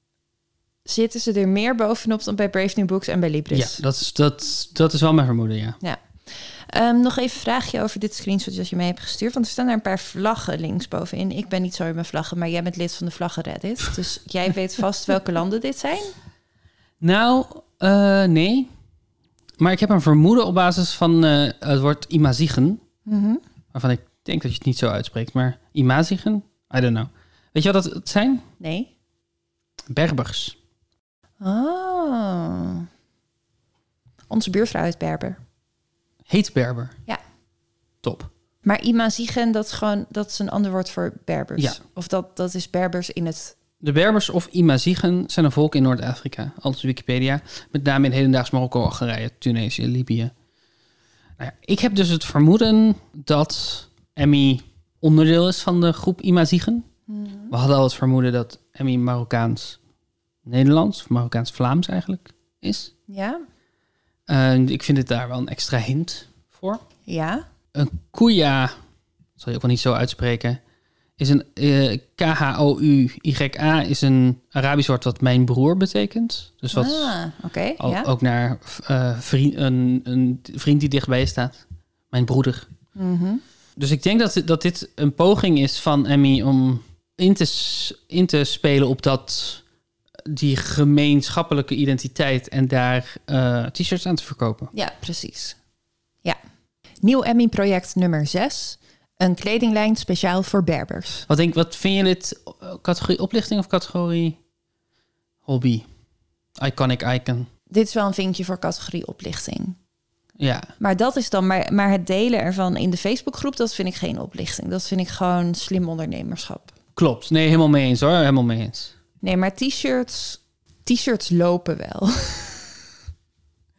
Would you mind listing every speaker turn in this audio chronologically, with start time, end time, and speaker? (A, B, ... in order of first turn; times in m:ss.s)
0:00.8-0:03.8 A
0:03.5-0:05.8 B
0:05.8-0:16.1 A
0:17.0-0:18.7 B
0:19.6-0:22.8 B
0:23.0-0:23.4 A
0:23.7-0:28.4 B
0:28.6-0:28.9 A
0:29.9-0:30.6 B
0:31.4-0:32.9 A
0:34.3-0:35.4 A
0:36.3-0:37.0 B
0:38.0-0:38.3 B
0:38.6-0:43.6 A
0:43.8-0:50.3 B
0:51.4-0:56.8 B
0:57.1-0:57.5 A
0:57.5-0:59.8 B
1:00.4-1:02.9 B
1:03.1-1:03.4 A
1:04.3-1:06.8 B
1:07.0-1:07.4 A
1:07.7-1:08.7 B
1:09.4-1:10.6 B
1:11.2-1:17.1 B
1:16.7-1:18.1 A
1:17.8-1:22.7 B
1:22.9-1:23.4 A
1:23.8-1:29.6 B
1:30.3-1:34.7 B
1:34.7-1:35.6 A
1:37.0-1:41.2 A
1:41.3-1:44.4 B
1:45.4-1:45.8 B
1:46.6-1:47.5 B
1:47.7-1:49.8 A
1:50.4-1:50.7 B
1:50.8-1:56.7 A
1:56.9-1:58.9 B
1:59.2-2:02.7 A